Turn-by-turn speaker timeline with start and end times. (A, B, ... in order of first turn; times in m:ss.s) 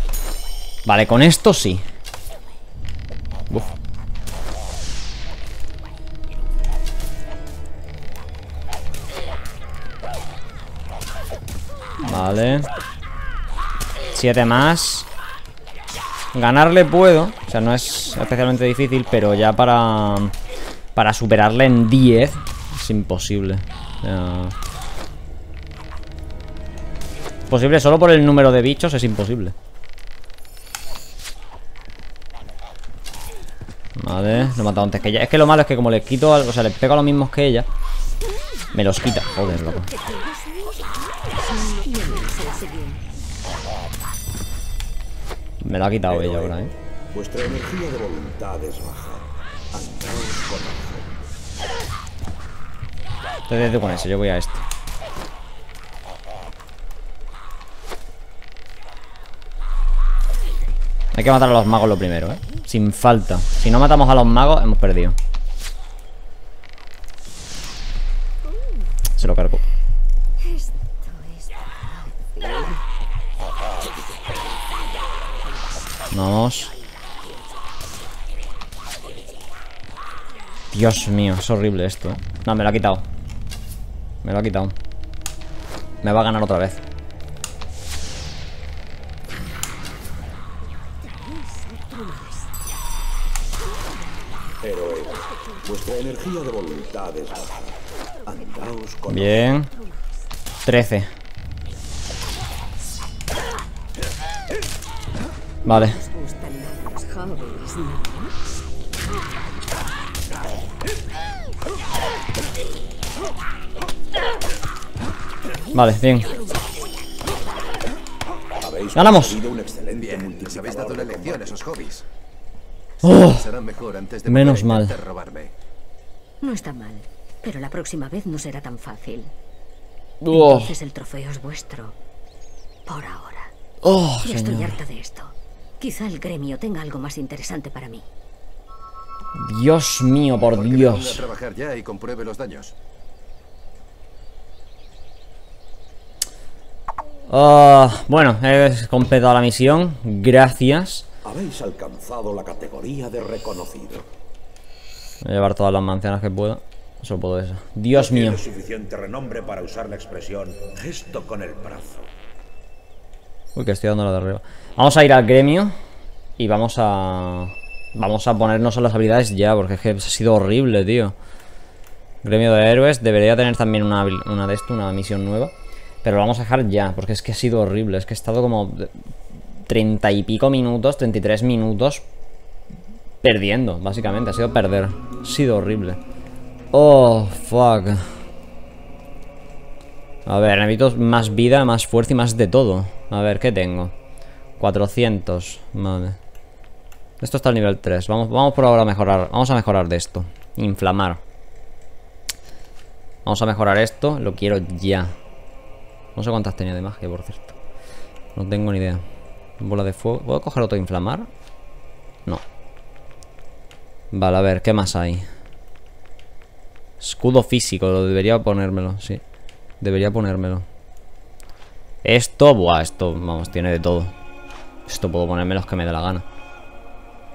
0:00.8-0:01.8 A
0:12.0-0:12.7 A
0:14.1-0:15.1 A
0:16.3-0:20.3 A
0:21.0-0:24.5 A
0:27.5-0:29.5 A
0:34.0-0:37.7 A
0:38.7-0:39.9 A
0:39.6-0:43.0 B
0:45.6-0:46.7 A
0:46.1-0:46.6 C
0:47.1-0:51.1 C
0:53.5-0:54.6 A
1:01.1-1:05.2 A
1:09.2-1:09.6 A
1:10.4-1:12.6 B
1:16.1-1:16.7 A
1:20.7-1:23.0 A
1:24.2-1:24.7 A
1:26.0-1:26.8 A
1:31.0-1:32.7 B
1:33.6-1:34.5 B
1:34.6-1:39.5 C
1:39.1-1:39.7 A
1:39.5-1:40.2 B
1:40.6-1:41.1 A
1:45.6-1:46.0 A
1:45.6-1:48.3 B
1:55.7-1:56.3 A
1:56.1-1:56.7 B
1:58.6-2:01.6 C
1:58.9-1:59.4 A
1:59.9-2:02.0 D
2:03.0-2:03.4 A
2:03.0-2:05.5 D
2:04.2-2:04.9 A
2:06.4-2:09.3 B
2:10.2-2:10.7 A
2:10.3-2:11.9 B
2:12.8-2:13.5 B
2:13.8-2:14.8 A
2:14.2-2:18.0 B
2:19.3-2:21.2 A
2:20.3-2:22.7 D
2:27.3-2:31.0 A
2:31.2-2:34.1 C
2:35.2-2:38.4 A
2:37.9-2:42.1 C
2:43.5-2:45.7 A
2:46.4-2:51.1 A
2:52.2-2:55.5 A
2:56.0-2:58.9 A
2:59.7-3:02.0 A
3:03.2-3:06.0 A
3:06.7-3:08.0 A
3:10.2-3:13.9 A
3:14.6-3:16.2 A
3:17.2-3:21.2 A
3:23.2-3:25.1 A
3:26.1-3:27.6 A
3:28.3-3:29.0 A
3:29.6-3:31.3 A
3:34.1-3:35.3 A
3:37.0-3:39.2 A
3:39.8-3:40.6 A
3:42.0-3:44.1 A
3:44.9-3:46.2 A